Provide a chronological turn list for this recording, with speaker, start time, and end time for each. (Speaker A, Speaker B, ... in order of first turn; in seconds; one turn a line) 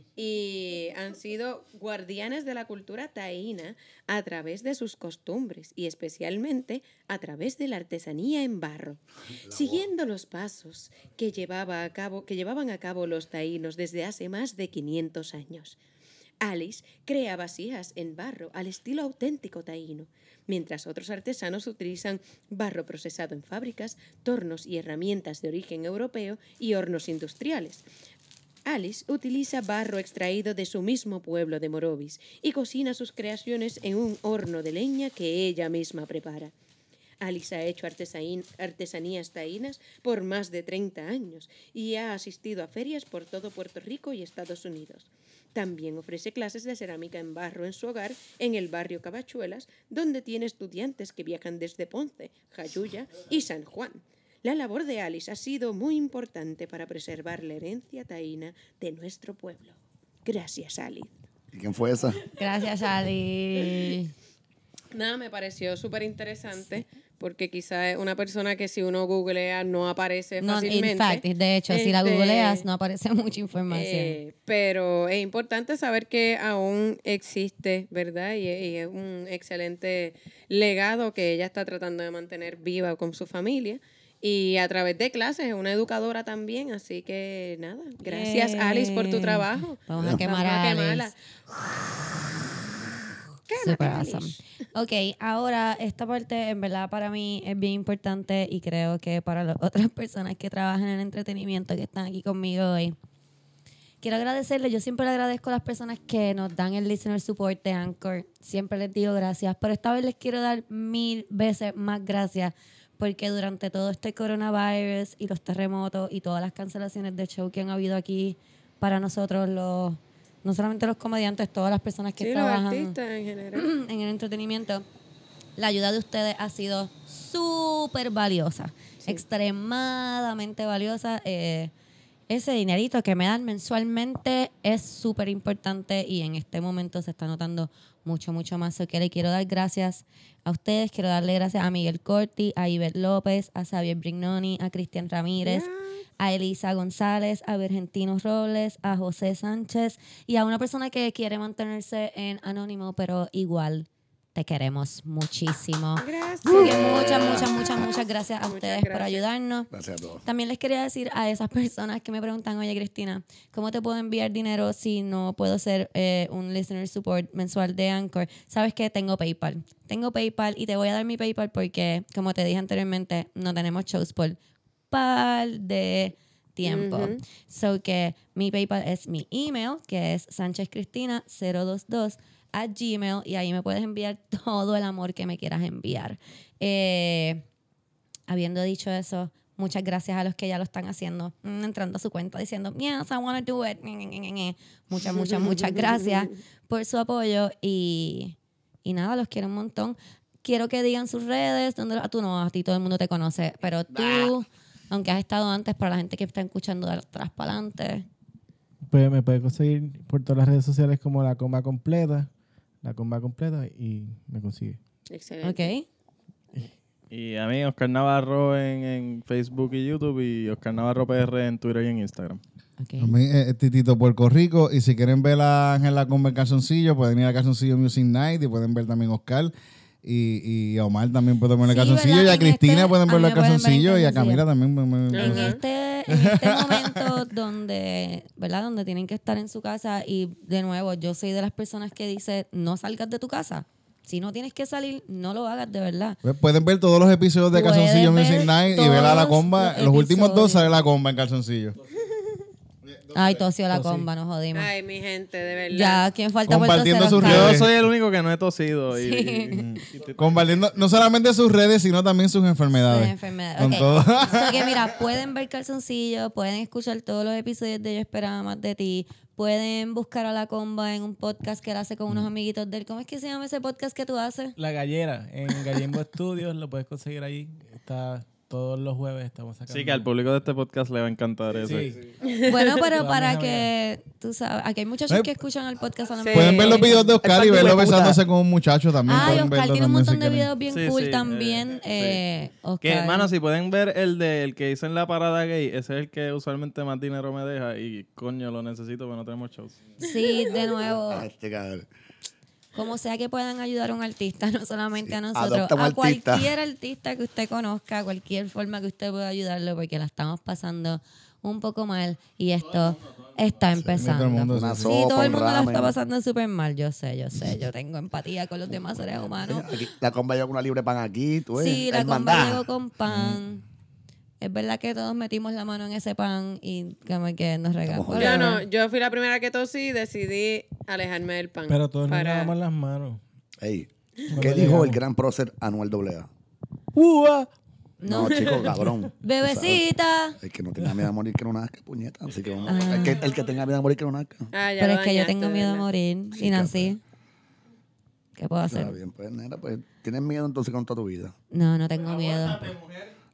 Speaker A: 0.1-15.8
Speaker B: 9.4-9.8
Speaker A: 16.4-27.8
Speaker A: 28.6-36.5
Speaker A: 37.2-61.2
Speaker B: 61.5-62.2
Speaker C: 62.4-64.1
Speaker A: 64.9-72.7
Speaker C: 70.4-74.2
Speaker A: 73.7-91.2
Speaker C: 88.0-91.1
Speaker B: 90.0-90.2
Speaker A: 93.5-94.4
Speaker C: 93.6-103.0
Speaker C: 104.0-123.0
Speaker A: 122.2-123.7
Speaker C: 123.5-124.8
Speaker C: 125.6-131.7
Speaker C: 132.3-145.7
Speaker A: 145.4-146.0
Speaker C: 146.2-159.7
Speaker A: 156.0-156.9
Speaker B: 156.5-157.5
Speaker A: 158.4-159.2
Speaker B: 159.7-160.2
Speaker C: 160.2-174.4
Speaker C: 174.9-187.4
Speaker A: 176.6-177.2
Speaker C: 188.3-208.1
Speaker B: 203.9-204.3
Speaker D: 208.9-212.3
Speaker D: 212.8-214.8
Speaker A: 215.1-215.7
Speaker C: 215.4-215.8
Speaker E: 217.1-222.4
Speaker C: 222.8-223.1
Speaker F: 223.0-229.5
Speaker F: 230.0-235.6
Speaker C: 231.6-234.4
Speaker A: 235.1-235.6
Speaker C: 235.1-246.2
Speaker F: 246.2-251.8
Speaker C: 247.5-250.7
Speaker F: 252.8-253.4
Speaker C: 253.1-254.7
Speaker D: 253.7-254.1
Speaker A: 254.5-256.1
Speaker C: 255.7-257.6
Speaker F: 256.5-257.8
Speaker E: 257.2-259.6
Speaker C: 258.9-259.7
Speaker F: 259.5-265.0
Speaker C: 262.8-274.6
Speaker D: 274.6-280.1
Speaker E: 279.7-281.9
Speaker D: 281.6-282.1
Speaker A: 282.2-282.9
Speaker C: 282.4-287.1
Speaker D: 282.9-283.7
Speaker F: 285.1-285.4
Speaker A: 286.2-287.1
Speaker F: 286.3-290.5
Speaker B: 287.1-288.2
Speaker C: 289.0-293.3
Speaker E: 290.7-292.2
Speaker E: 292.8-299.8
Speaker C: 300.0-301.3
Speaker B: 300.8-301.9
Speaker C: 302.7-319.7
Speaker B: 305.1-306.5
Speaker E: 312.6-313.6
Speaker B: 313.8-315.9
Speaker F: 313.9-314.9
Speaker B: 319.4-322.7
Speaker C: 321.5-323.6
Speaker C: 324.4-328.6
Speaker B: 327.8-328.5
Speaker A: 328.1-332.5
Speaker D: 331.7-333.2
Speaker B: 333.6-336.3
Speaker D: 334.3-335.0
Speaker D: 336.9-337.5
Speaker C: 338.0-338.6
Speaker B: 338.0-339.8
Speaker A: 338.2-338.7
Speaker C: 339.2-340.4
Speaker B: 340.4-344.5
Speaker E: 342.4-343.5
Speaker C: 342.6-343.3
Speaker A: 344.5-345.9
Speaker C: 344.8-347.0
Speaker B: 346.4-346.9
Speaker C: 348.4-349.0
Speaker B: 348.7-351.3
Speaker C: 351.5-352.6
Speaker E: 352.0-353.1